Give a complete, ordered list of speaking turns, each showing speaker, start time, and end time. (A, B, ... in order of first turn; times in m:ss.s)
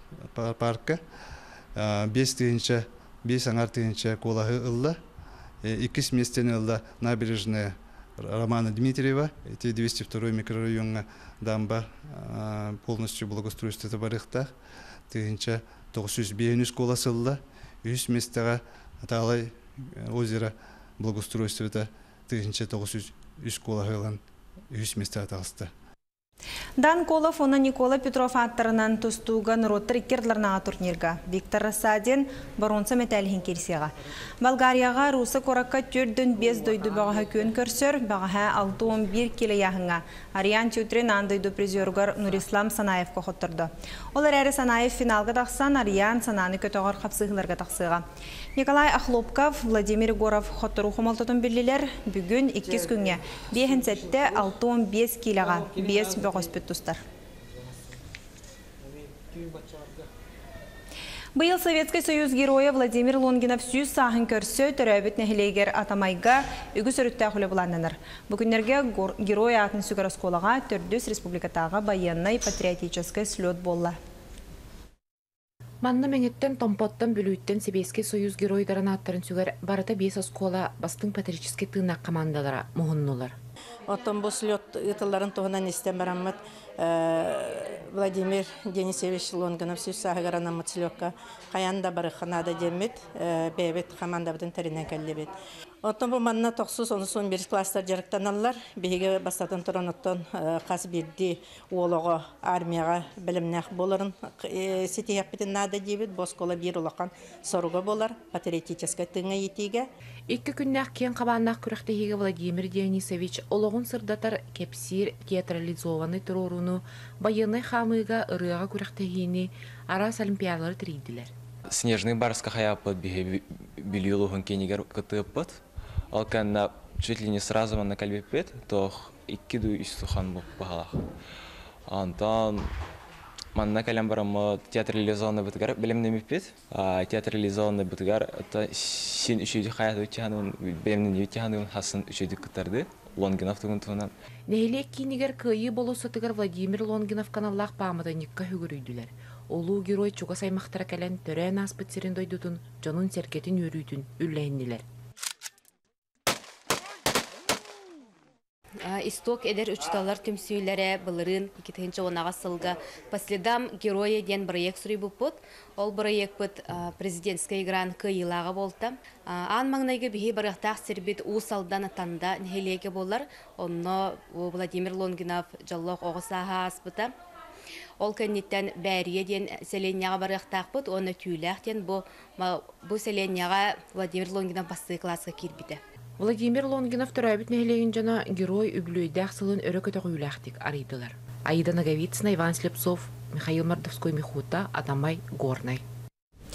0:00.3-0:01.0 A
0:01.8-0:05.0 A
0:05.6-0:14.5 A
0:15.1-0:25.7 A
0:26.8-0:48.0 B
0:48.6-0:57.0 B
1:01.4-1:14.0 B
1:15.8-1:23.4 C
1:23.9-1:49.8 D
1:50.3-2:01.3 C
2:01.7-2:11.0 E
2:11.9-2:12.7 E
2:13.5-2:24.1 E
2:24.5-2:34.8 C
2:38.8-2:57.1 F
2:58.0-3:05.8 F
3:06.2-3:15.8 C